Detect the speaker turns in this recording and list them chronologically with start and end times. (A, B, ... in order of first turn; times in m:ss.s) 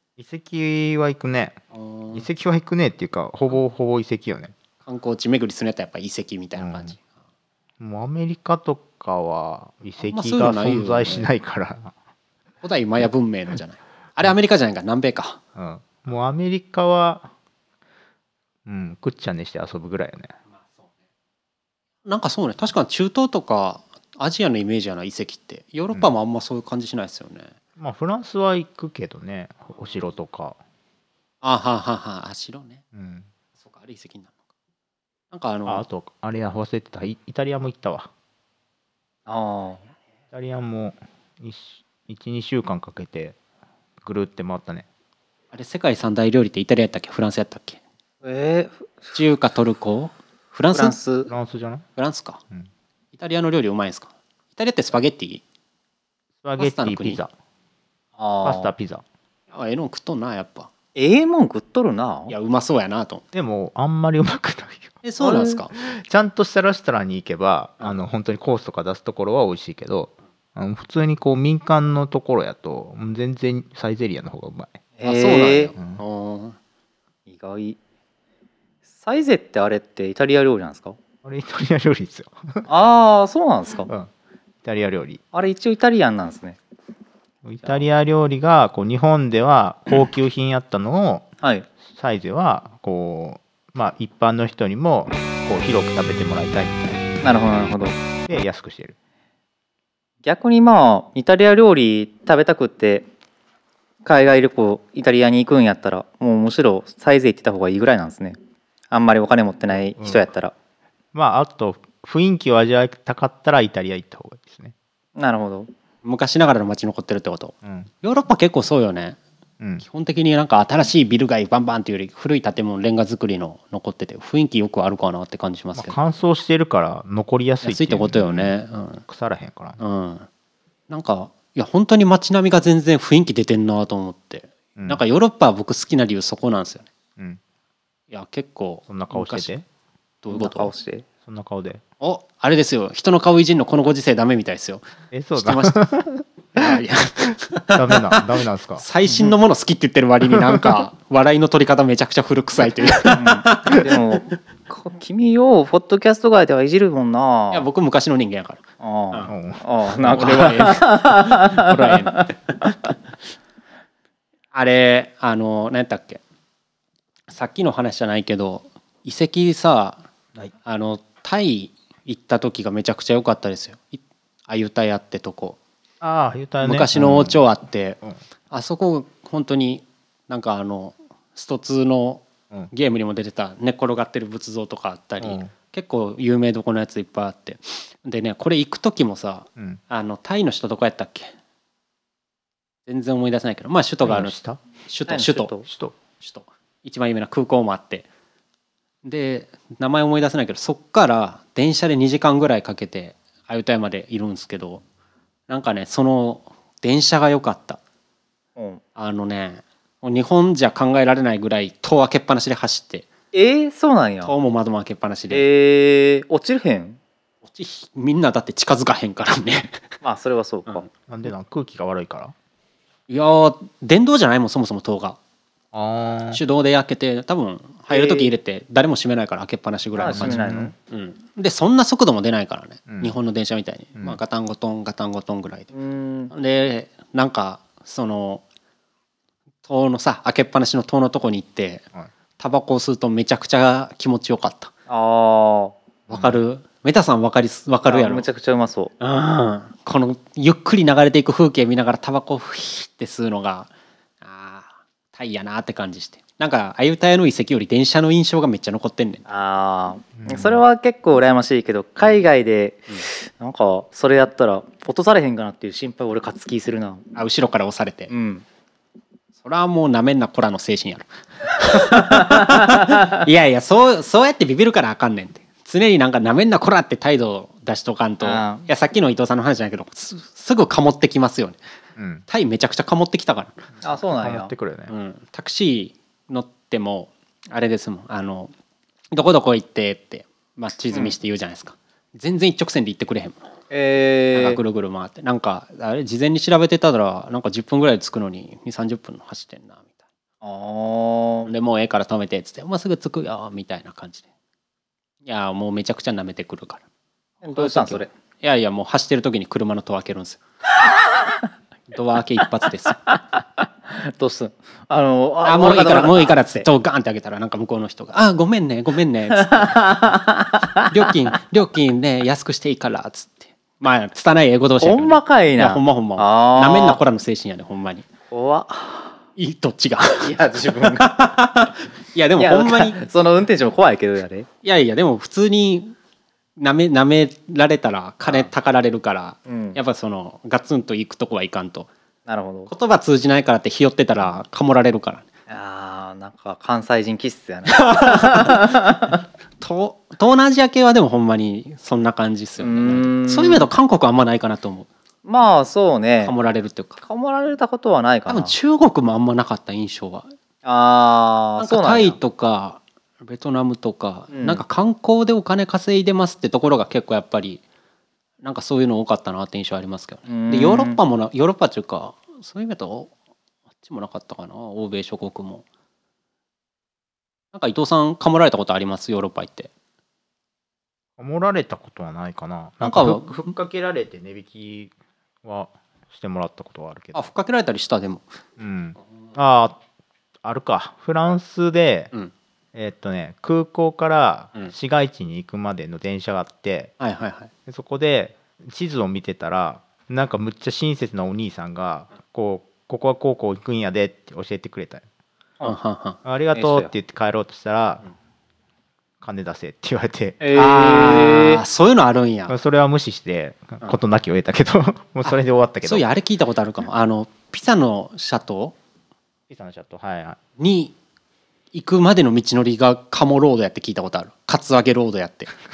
0:00.2-0:01.6 A
0:01.7-0:02.3 B
0:02.1-0:04.5 A
0:04.8-0:07.0 B
0:06.6-0:06.9 A
0:07.8-0:11.9 A
0:10.0-0:11.3 B
0:12.6-0:15.4 B
0:15.6-0:17.3 A
0:18.7-0:20.3 A
0:22.1-0:27.5 B
0:27.8-0:30.6 A
0:31.4-0:32.8 B
0:32.9-0:33.3 A
0:33.6-0:34.4 B
0:35.3-0:35.9 B
0:35.7-0:38.1 A
0:39.3-0:39.8 C
0:40.3-0:43.4 A
0:44.0-0:44.9 A
0:45.5-0:47.8 B
0:48.2-0:49.2 C
0:49.1-0:51.0 B
0:50.7-0:51.3 C
0:51.3-0:51.8 A
0:52.0-0:52.4 B
0:53.2-0:55.4 B
0:56.4-0:57.3 A
0:56.6-0:57.2 B
0:58.2-0:58.7 C
0:58.4-0:59.0 A
0:59.5-1:00.7 B
1:01.0-1:02.4 C
1:02.3-1:03.2 B
1:03.3-1:05.0 A
1:05.0-1:05.7 B
1:05.2-1:05.6 C
1:05.7-1:14.8 A
1:15.0-1:15.7 C
1:15.0-1:16.6 B
1:17.3-1:17.8 C
1:18.9-1:21.0 C
1:21.2-1:22.7 A
1:22.7-1:23.9 C
1:24.6-1:25.2 A
1:25.3-1:26.6 C
1:27.4-1:31.3 A
1:31.4-1:31.7 C
1:31.8-1:37.1 A
1:37.2-1:38.0 C
1:38.3-1:39.0 A
1:40.2-1:43.1 C
1:44.0-1:48.4 C
1:48.9-1:50.5 C
1:49.7-1:50.3 A
1:51.1-1:54.8 A
1:55.2-1:55.7 C
1:56.0-1:59.2 B
1:57.6-1:57.9 A
1:59.6-1:59.8 A
1:59.8-2:06.0 B
2:05.8-2:09.8 A
2:07.6-2:09.0 B
2:09.8-2:10.3 B
2:10.9-2:16.9 B
2:14.8-2:15.0 A
2:18.1-2:19.6 B
2:18.9-2:19.7 A
2:20.2-2:20.7 B
2:20.3-2:21.1 C
2:21.2-2:21.8 A
2:22.0-2:24.8 B
2:25.1-2:26.8 A
2:25.4-2:25.8 B
2:26.6-2:33.8 B
2:27.7-2:28.8 A
2:30.3-2:30.8 A
2:33.1-2:37.7 C
2:37.5-2:38.6 B
2:38.8-2:42.3 C
2:39.3-2:40.6 A
2:40.0-2:42.5 B
2:44.5-2:46.2 B
2:47.3-2:50.0 B
2:50.6-2:55.6 B
2:56.0-2:57.4 A
2:56.6-3:11.3 B
3:05.2-3:05.5 A
3:12.9-3:14.3 B
3:14.0-3:14.6 A
3:14.8-3:15.5 B
3:15.1-3:15.7 C
3:15.6-3:16.0 A
3:16.2-3:18.1 B
3:19.0-3:24.8 B
3:25.5-3:27.8 B
3:28.6-3:28.8 C
3:29.0-3:33.1 B
3:33.3-3:34.4 C
3:34.2-3:35.5 B
3:35.3-3:37.0 C
3:37.4-3:39.8 B
3:40.0-3:40.9 C
3:41.1-3:42.3 A
3:43.1-3:45.2 B
3:45.7-3:46.4 A
3:46.3-3:55.7 B
3:47.9-3:48.3 C
3:50.0-3:50.7 C
3:50.0-3:50.7 A
3:52.9-3:53.2 A
3:55.7-3:56.3 C
3:56.3-3:58.4 B
3:59.6-4:01.8 B
4:02.4-4:04.7 B
4:04.9-4:05.8 C
4:06.1-4:08.3 B
4:06.1-4:06.4 A
4:07.9-4:08.9 C
4:09.0-4:13.7 B
4:14.2-4:19.2 B
4:19.3-4:27.1 C
4:20.2-4:20.6 A
4:27.2-4:28.1 B
4:28.1-4:28.4 C
4:29.4-4:41.6 B
4:32.5-4:33.1 C
4:38.2-4:38.7 C
4:42.0-4:42.2 A
4:42.3-4:43.7 B
4:43.8-4:44.5 C
4:44.1-4:44.9 A
4:44.9-4:48.5 B
4:49.1-4:53.4 B
4:53.7-4:54.6 C
4:54.3-4:59.9 B
5:00.4-5:01.5 C
5:01.4-5:04.3 B
5:05.2-5:06.8 B
5:07.4-5:08.1 C
5:07.5-5:10.4 B
5:11.9-5:13.0 B
5:13.9-5:16.7 C
5:15.4-5:19.8 B
5:19.3-5:20.8 C
5:20.9-5:28.1 B
5:24.8-5:27.0 C
5:28.3-5:29.2 C
5:29.4-5:33.0 B
5:30.2-5:31.3 C
5:32.4-5:34.5 C
5:34.6-5:35.9 B
5:36.6-5:41.9 B
5:38.2-5:38.5 C
5:39.5-5:39.8 C
5:42.3-5:42.7 C
5:42.7-5:45.3 B
5:45.5-5:49.1 C
5:47.7-5:48.7 B
5:49.6-5:54.9 B
5:52.6-5:53.7 C
5:55.2-5:56.4 C
5:56.2-5:57.0 B
5:57.0-5:58.6 C
5:58.3-6:00.3 B
6:00.6-6:02.2 C
6:01.6-6:07.6 B
6:04.3-6:04.6 C
6:08.4-6:13.1 B
6:10.3-6:11.0 C
6:13.8-6:15.6 B
6:17.5-6:19.7 B
6:21.2-6:24.9 A
6:22.8-6:23.5 B
6:25.4-6:27.3 A
6:27.1-6:28.3 B
6:28.6-6:29.8 A
6:30.4-6:32.1 A
6:32.8-6:36.9 A
6:37.0-6:37.5 B
6:37.7-6:45.0 A
6:45.6-6:46.2 B
6:46.2-6:48.0 A
6:46.5-6:46.9 C
6:49.2-6:50.4 A
6:50.4-6:51.6 C
6:50.6-6:52.5 B
6:52.5-6:56.1 A
6:55.2-6:58.8 B
6:59.5-7:00.4 A
7:00.6-7:00.9 B
7:01.7-7:05.5 B